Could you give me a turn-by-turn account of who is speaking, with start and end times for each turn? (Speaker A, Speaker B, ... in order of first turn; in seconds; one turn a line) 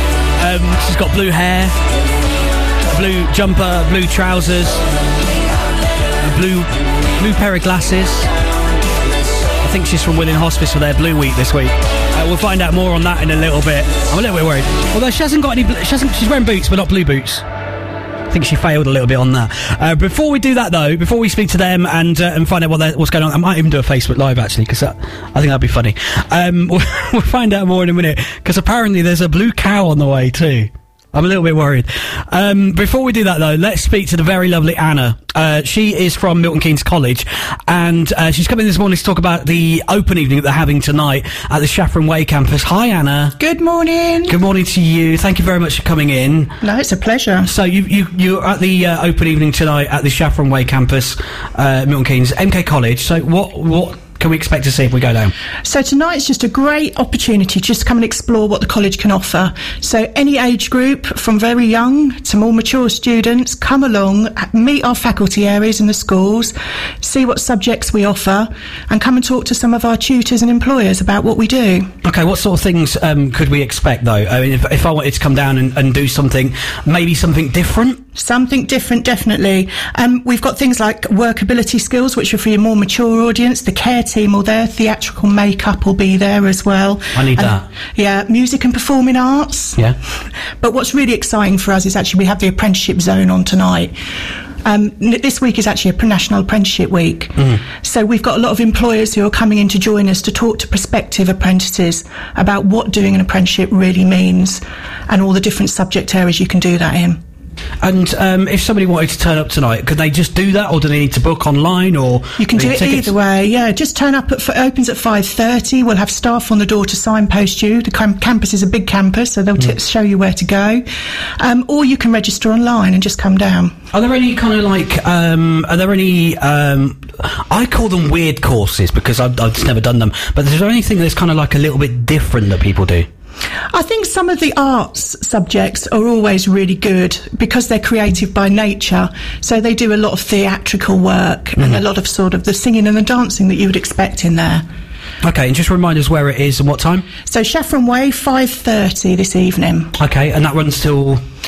Speaker A: 0.4-1.8
Speaker A: 2.9-4.8
Speaker A: 6.2-8.3
Speaker A: 9.6-17.4
Speaker A: 18.3-43.4
Speaker B: 43.4-44.4
Speaker A: 44.3-46.6
Speaker B: 46.6-47.5
Speaker A: 47.4-55.3
Speaker B: 55.6-71.9
Speaker A: 72.0-78.0
Speaker B: 78.2-89.8
Speaker A: 87.2-87.6
Speaker B: 90.6-93.9
Speaker B: 94.6-107.2
Speaker A: 107.8-113.1
Speaker B: 112.4-120.8
Speaker B: 121.4-123.8
Speaker A: 123.9-133.1
Speaker B: 133.7-144.6
Speaker A: 145.2-147.1
Speaker B: 147.3-149.9
Speaker A: 150.0-151.2